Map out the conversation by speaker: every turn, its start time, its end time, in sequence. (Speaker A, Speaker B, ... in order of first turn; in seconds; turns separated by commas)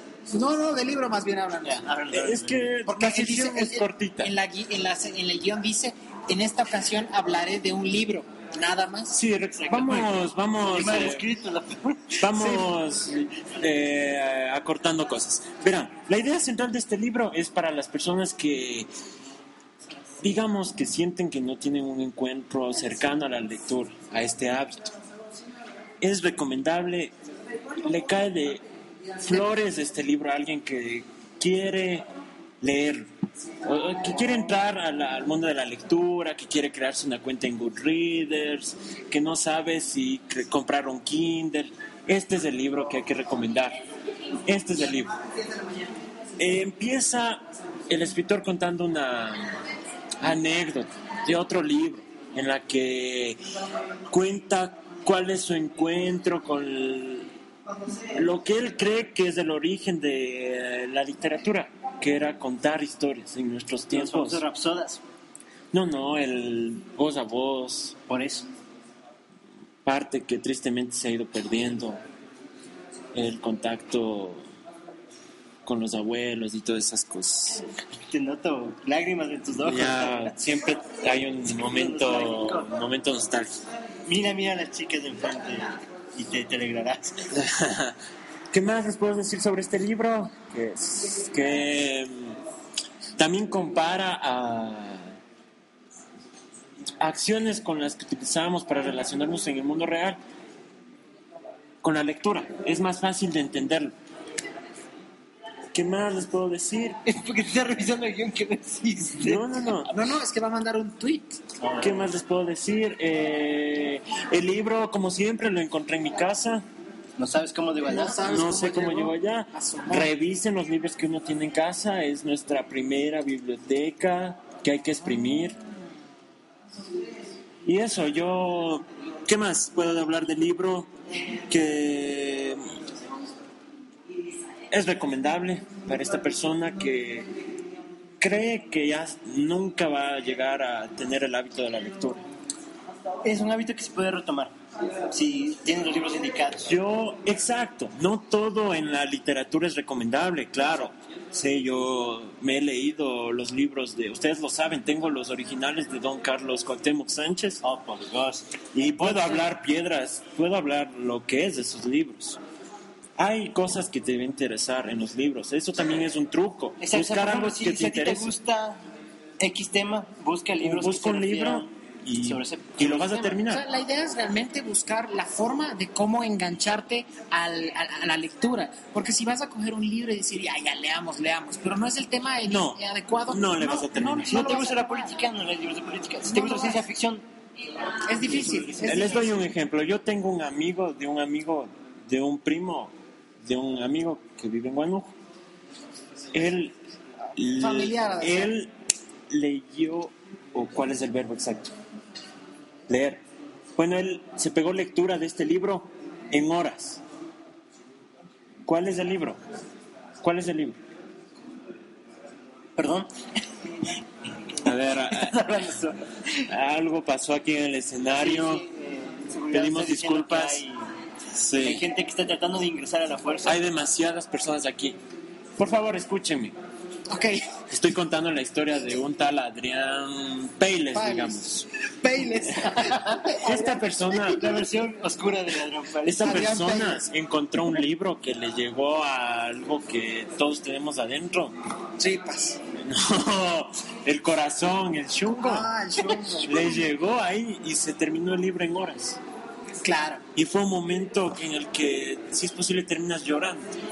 Speaker A: 0.3-1.8, Speaker B: 1.6-2.7, Speaker C: 2.1-4.3, Speaker A: 2.9-9.2, Speaker C: 9.1-11.2, Speaker B: 9.6-12.7, Speaker C: 12.2-18.9, Speaker C: 20.2-24.9, Speaker C: 26.0-27.1, Speaker C: 27.8-28.6, Speaker C: 29.2-32.1, Speaker C: 32.6-33.1, Speaker C: 33.7-43.8, Speaker C: 44.5-45.1, Speaker C: 46.4-49.6, Speaker C: 50.2-53.4, Speaker C: 54.1-57.3, Speaker C: 58.1-64.4, Speaker B: 63.9-65.0, Speaker C: 65.7-68.0, Speaker B: 68.1-68.5, Speaker C: 69.8-72.0, Speaker C: 73.1-74.4, Speaker C: 75.7-77.6, Speaker B: 78.1-80.4, Speaker C: 79.6-83.6, Speaker B: 81.5-82.7, Speaker B: 84.1-87.2, Speaker C: 87.3-88.0, Speaker C: 88.5-92.4, Speaker C: 93.2-95.2, Speaker C: 97.0-100.2, Speaker C: 101.8-103.9, Speaker C: 105.7-107.0, Speaker B: 107.1-109.5, Speaker C: 109.2-109.9, Speaker A: 109.9-111.4, Speaker B: 111.6-112.2, Speaker C: 111.8-116.7, Speaker B: 117.2-118.5, Speaker A: 117.9-120.1, Speaker C: 118.2-125.6, Speaker C: 127.7-130.9, Speaker C: 131.5-132.6, Speaker C: 134.7-137.3, Speaker C: 138.2-142.2, Speaker B: 143.2-144.5, Speaker B: 145.1-146.7, Speaker C: 146.7-157.6, Speaker B: 157.6-159.5, Speaker C: 158.7-162.4, Speaker C: 163.2-168.3, Speaker B: 166.8-168.8, Speaker B: 169.4-171.7, Speaker C: 170.6-173.6, Speaker B: 172.2-173.4, Speaker A: 173.5-185.2, Speaker C: 182.5-184.6, Speaker B: 184.3-187.2, Speaker A: 186.2-186.8, Speaker A: 188.1-189.4, Speaker B: 188.2-189.3, Speaker C: 188.8-195.1, Speaker C: 196.3-196.7, Speaker C: 197.4-198.7, Speaker A: 197.6-198.6, Speaker C: 199.3-201.7, Speaker C: 202.9-203.2, Speaker C: 203.8-207.0, Speaker C: 208.7-209.4, Speaker C: 210.2-210.8, Speaker B: 212.8-213.1, Speaker C: 214.6-215.4, Speaker B: 214.7-216.4, Speaker C: 216.5-218.6, Speaker B: 218.1-220.9, Speaker C: 219.5-220.6, Speaker C: 221.3-221.8, Speaker B: 221.6-223.6, Speaker C: 223.5-225.0, Speaker C: 225.6-226.6, Speaker A: 227.1-227.4, Speaker C: 227.7-231.7, Speaker A: 230.9-231.5, Speaker A: 232.0-233.7, Speaker B: 232.8-233.6, Speaker C: 233.4-234.5, Speaker B: 234.2-236.4, Speaker C: 236.1-241.5, Speaker A: 236.2-237.1, Speaker A: 242.0-242.6, Speaker C: 242.8-245.7, Speaker A: 245.3-246.9, Speaker C: 246.4-249.2, Speaker A: 249.8-250.2, Speaker C: 250.4-253.7